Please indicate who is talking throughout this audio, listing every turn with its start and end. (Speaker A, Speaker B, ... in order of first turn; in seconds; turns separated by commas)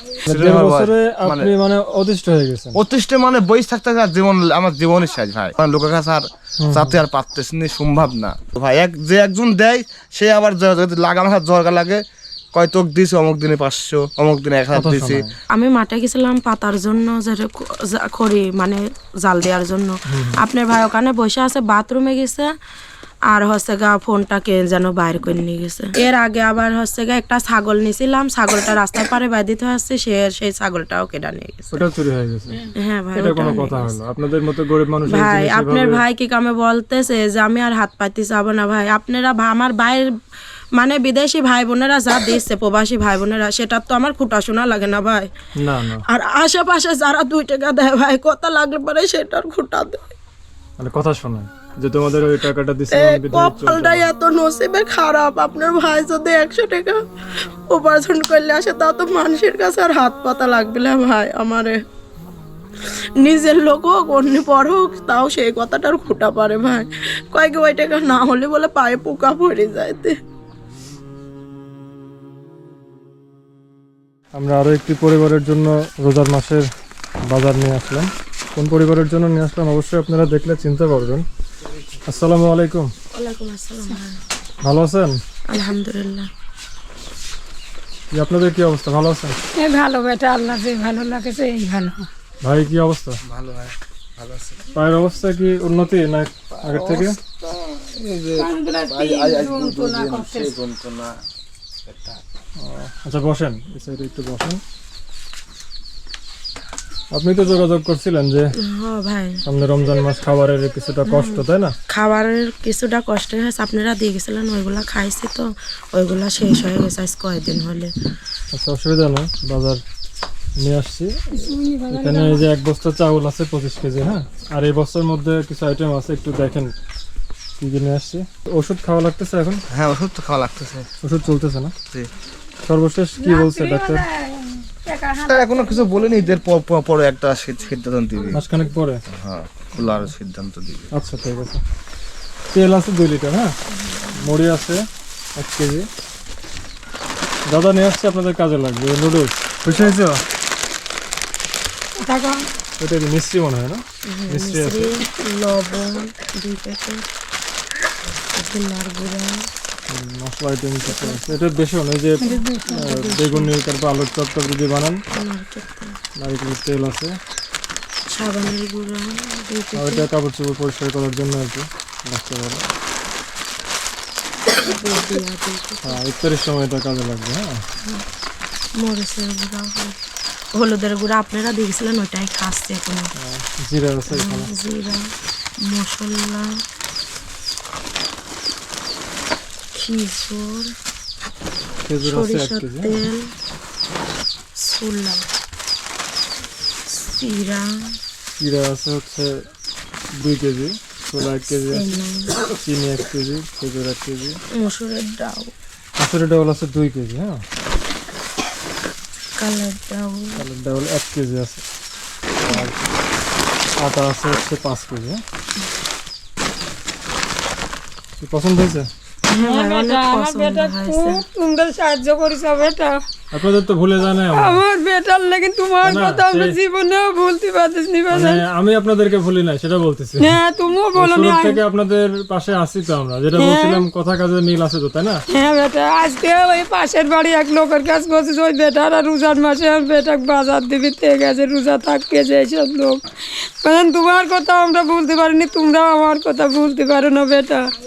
Speaker A: 0.3-2.8, Speaker B: 0.3-1.5, Speaker B: 2.8-12.0, Speaker A: 6.6-7.0, Speaker B: 12.5-15.2, Speaker A: 14.7-15.3, Speaker C: 15.5-22.5, Speaker A: 20.1-20.4, Speaker C: 23.3-31.7, Speaker A: 31.7-32.6, Speaker C: 32.8-33.9, Speaker A: 33.1-36.0, Speaker C: 35.1-40.1, Speaker C: 40.8-45.3, Speaker A: 45.6-46.0, Speaker C: 46.1-50.0, Speaker A: 50.8-54.1, Speaker C: 52.9-57.0, Speaker C: 57.7-61.8, Speaker C: 63.2-70.2, Speaker A: 74.4-76.7, Speaker A: 77.3-81.2, Speaker A: 82.1-82.9, Speaker C: 83.1-84.2, Speaker A: 84.6-85.2, Speaker C: 85.5-86.3, Speaker A: 88.1-89.4, Speaker D: 89.6-92.1, Speaker A: 92.4-93.2, Speaker B: 93.3-94.6, Speaker A: 94.7-97.2, Speaker B: 96.6-101.2, Speaker D: 98.4-100.5, Speaker B: 101.9-102.2, Speaker A: 102.6-104.6, Speaker A: 107.1-108.5, Speaker C: 108.6-109.4, Speaker A: 109.5-111.7, Speaker C: 111.9-117.9, Speaker A: 118.5-119.8, Speaker A: 120.6-121.2, Speaker D: 121.3-122.5, Speaker A: 121.9-126.7, Speaker A: 127.6-129.6, Speaker B: 129.7-130.9, Speaker A: 131.0-131.7, Speaker A: 132.6-134.1, Speaker D: 133.2-135.7, Speaker B: 135.2-138.4, Speaker A: 138.3-139.0, Speaker B: 139.2-140.9, Speaker A: 140.9-141.6, Speaker A: 142.5-143.6, Speaker C: 143.9-144.1, Speaker A: 144.1-144.8, Speaker A: 145.4-145.9, Speaker A: 147.5-150.2, Speaker D: 152.0-152.4, Speaker A: 152.8-155.0, Speaker C: 154.1-157.1, Speaker C: 158.2-159.5, Speaker A: 159.9-165.0, Speaker C: 161.0-161.2, Speaker D: 162.2-162.8, Speaker C: 162.5-163.5, Speaker C: 165.2-166.0, Speaker A: 166.2-167.2, Speaker C: 168.1-170.1, Speaker A: 169.8-172.6, Speaker C: 174.6-176.0, Speaker A: 175.8-177.6, Speaker C: 178.8-180.0, Speaker C: 180.5-183.1, Speaker A: 183.2-184.5, Speaker C: 184.1-185.1, Speaker C: 185.6-186.6, Speaker C: 189.7-190.8, Speaker A: 191.8-193.1, Speaker C: 192.0-193.3, Speaker C: 194.6-195.2, Speaker C: 196.9-198.0, Speaker A: 198.4-199.3, Speaker A: 200.1-204.4, Speaker C: 201.5-202.4, Speaker C: 204.6-205.5, Speaker A: 206.0-207.4, Speaker C: 209.4-210.4, Speaker A: 210.4-211.6, Speaker A: 212.4-212.8, Speaker A: 213.8-215.2, Speaker A: 218.2-218.9, Speaker C: 219.3-221.2, Speaker D: 219.4-223.0, Speaker A: 223.3-224.6, Speaker D: 224.3-228.4, Speaker A: 225.8-226.6, Speaker A: 228.1-230.4, Speaker D: 230.2-231.6, Speaker A: 230.9-235.2, Speaker D: 233.4-233.8, Speaker D: 235.3-243.0, Speaker D: 243.6-247.7